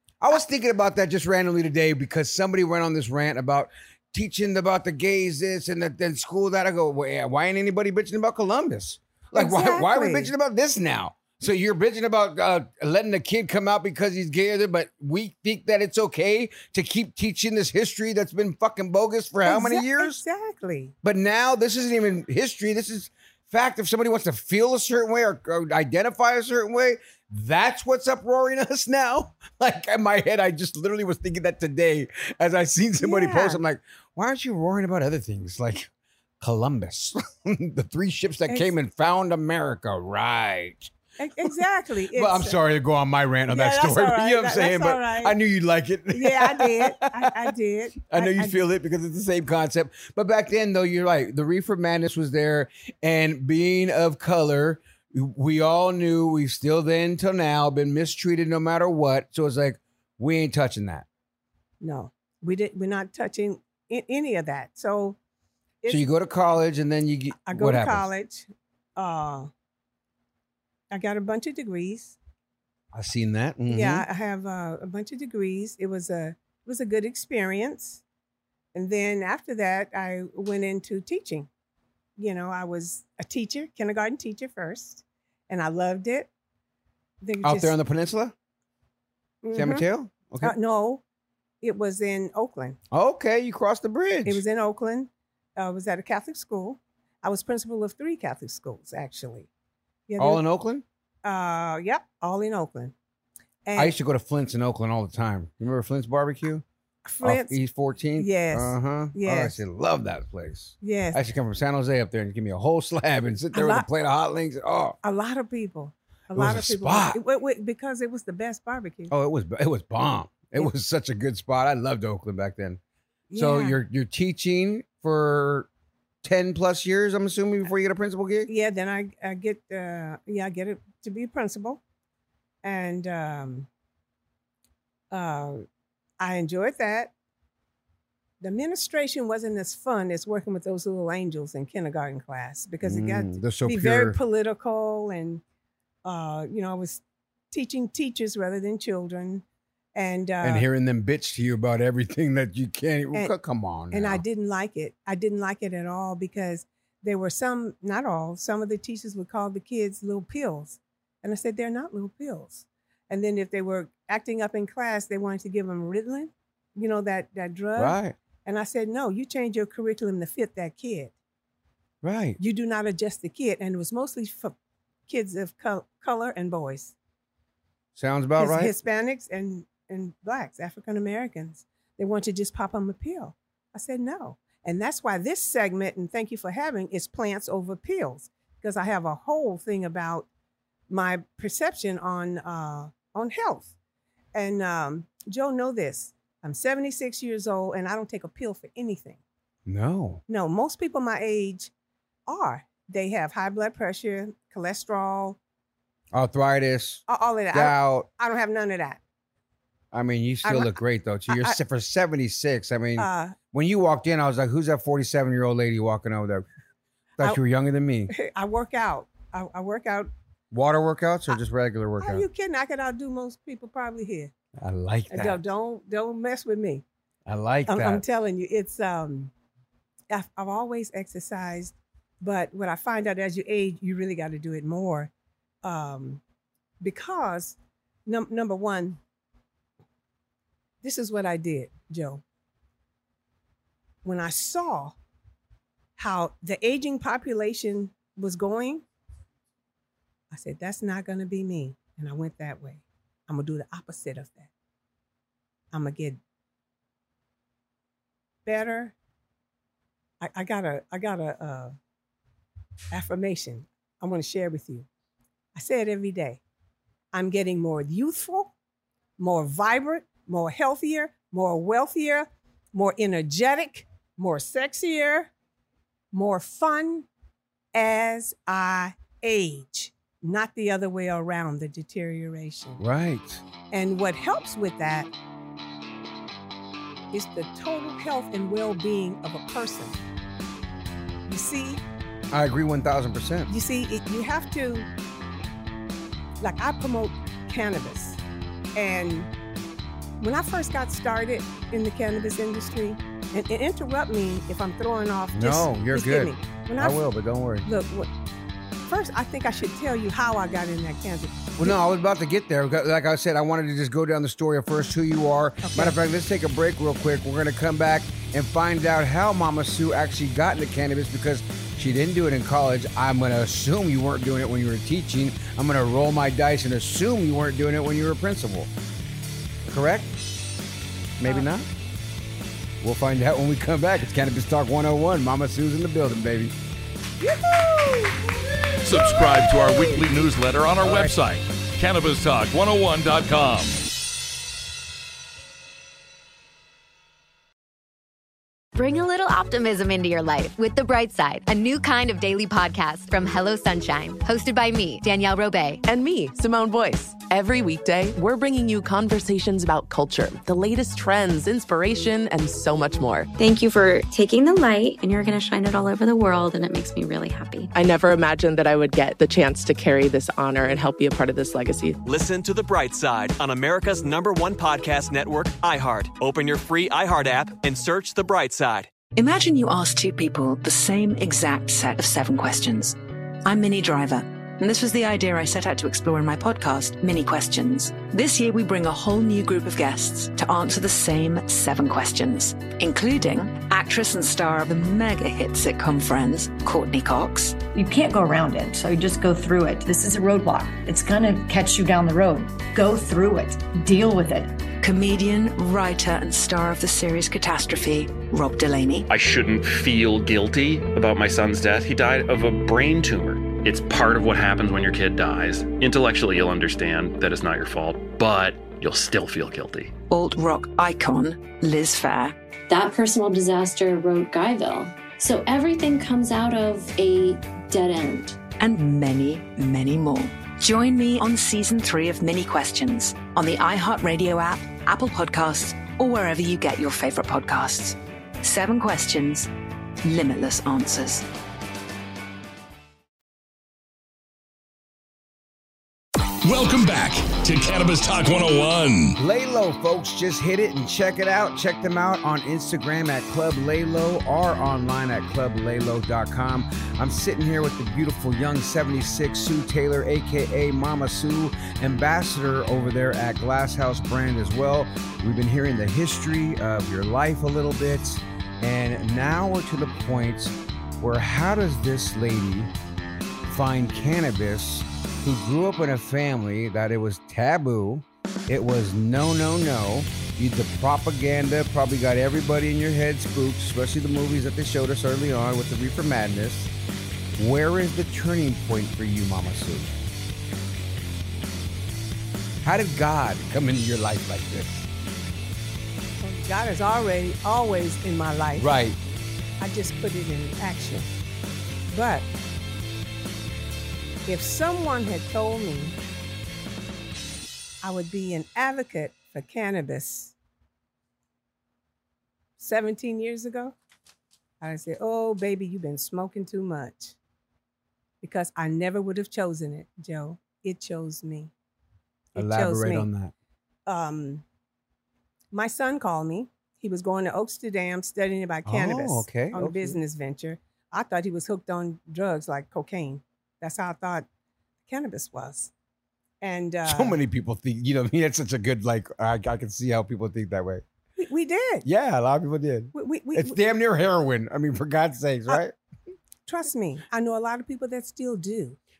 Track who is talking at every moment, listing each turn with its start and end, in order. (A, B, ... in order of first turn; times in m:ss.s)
0:00.2-0:20.2 A
0:09.3-0:10.3 B
0:19.4-0:20.9 B
0:21.0-0:35.9 A
0:33.0-0:33.6 B
0:36.4-0:41.6 A
0:41.2-0:42.6 B
0:42.1-0:47.3 A
0:43.5-0:45.4 B
0:46.1-0:48.6 B
0:48.0-1:01.0 A
1:01.8-1:05.2 B
1:05.8-1:08.0 A
1:07.4-1:09.5 B
1:10.9-1:12.2 B
1:12.9-1:14.0 A
1:13.7-1:18.0 B
1:18.7-1:21.5 B
1:22.2-1:26.3 B
1:27.2-1:27.7 B
1:27.4-1:28.3 A
1:29.4-1:29.8 B
1:29.5-1:30.5 A
1:30.4-1:31.0 B
1:31.6-1:32.8 B
1:32.9-1:34.4 A
1:34.2-1:39.5 B
1:40.1-1:40.4 B
1:40.2-1:40.8 A
1:41.2-1:42.9 B
1:43.6-1:43.9 B
1:43.8-1:46.6 A
1:47.0-1:47.6 B
1:47.2-1:55.0 A
1:48.2-1:49.6 B
1:50.8-1:51.2 B
1:53.5-1:53.9 B
1:55.0-1:59.1 B
1:56.3-1:57.2 A
1:59.1-2:02.8 A
2:03.3-2:03.8 B
2:03.3-2:05.7 A
2:06.2-2:08.5 A
2:08.5-2:11.8 B
2:12.6-2:13.7 B
2:15.1-2:15.6 B
2:16.2-2:17.1 B
2:18.4-2:25.4 B
2:22.8-2:24.2 A
2:26.0-2:29.4 B
2:29.9-2:30.6 B
2:30.4-2:34.2 A
2:33.9-2:51.1 B
2:47.8-2:48.2 A
2:52.0-2:52.4 A
2:52.4-2:54.5 B
2:55.1-2:56.9 B
2:57.9-2:58.7 A
2:58.4-3:10.3 B
3:10.9-3:13.7 B
3:14.3-3:19.2 B
3:19.6-3:20.2 A
3:20.3-3:21.7 B
3:22.3-3:25.4 B
3:26.1-3:28.1 A
3:27.1-3:29.0 B
3:29.9-3:36.4 A
3:30.4-3:31.6 B
3:33.0-3:33.4 B
3:37.2-3:38.1 A
3:38.1-3:40.1 B
3:40.5-3:42.2 A
3:42.0-3:44.3 B
3:44.6-3:45.4 A
3:45.1-3:46.8 B
3:47.3-3:48.0 A
3:47.7-3:49.3 B
3:50.1-3:55.1 B
3:55.6-3:56.2 B
3:56.8-3:59.0 B
4:00.8-4:02.2 B
4:04.0-4:05.0 B
4:06.0-4:08.8 B
4:10.3-4:14.5 B
4:15.7-4:16.2 B
4:18.4-4:18.9 B
4:20.2-4:21.8 B
4:22.9-4:24.9 B
4:25.5-4:26.4 B
4:27.1-4:28.5 B
4:29.2-4:35.3 B
4:36.1-4:37.1 B
4:37.7-4:42.8 B
4:42.8-4:43.4 A
4:43.7-4:45.1 B
4:47.1-4:50.0 B
4:51.3-4:51.8 B
4:52.3-4:53.5 A
4:53.5-4:54.9 B
4:56.4-4:58.2 B
4:58.8-4:59.3 B
5:00.2-5:07.0 B
5:05.3-5:07.7 A
5:07.6-5:08.1 B
5:08.8-5:11.8 B
5:11.6-5:28.7 A
5:15.6-5:16.0 B
5:29.6-5:30.1 A
5:31.2-5:31.7 A
5:32.8-5:36.5 A
5:37.2-5:38.3 B
5:38.8-5:43.8 C
5:38.9-5:39.8 B
5:48.8-5:55.8 D
5:55.8-6:03.3 E
6:03.4-6:07.7 F
6:07.7-6:12.0 E
6:12.0-6:18.9 G
6:19.1-6:37.6 H
6:37.7-6:44.5 I
6:44.8-6:49.1 H
6:49.1-6:59.9 J
7:00.1-7:02.4 H
7:02.7-7:08.4 K
7:08.6-7:19.5 H
7:20.0-7:21.2 H
7:26.4-7:29.2 C
7:29.2-7:52.7 A
7:53.5-8:06.7 A
8:07.4-8:09.9 A
8:12.6-8:14.9 A
8:16.2-8:18.7 B
8:18.6-8:19.0 A
8:19.6-8:21.1 B
8:21.9-8:22.2 B
8:24.2-8:25.9 B
8:27.8-8:30.3 B
8:32.6-8:33.7 B
8:34.6-8:37.2 B
8:38.2-8:41.5 B
8:42.3-8:43.1 B
8:42.4-8:43.3 A
8:43.8-8:44.4 B
8:45.5-8:54.3 B
8:48.6-8:50.0 A
8:54.9-8:55.7 B
8:56.4-8:57.2 B
8:56.8-9:00.8 A
9:01.2-9:01.8 B
9:01.8-9:05.7 A
9:02.9-9:03.6 B
9:06.4-9:08.8 B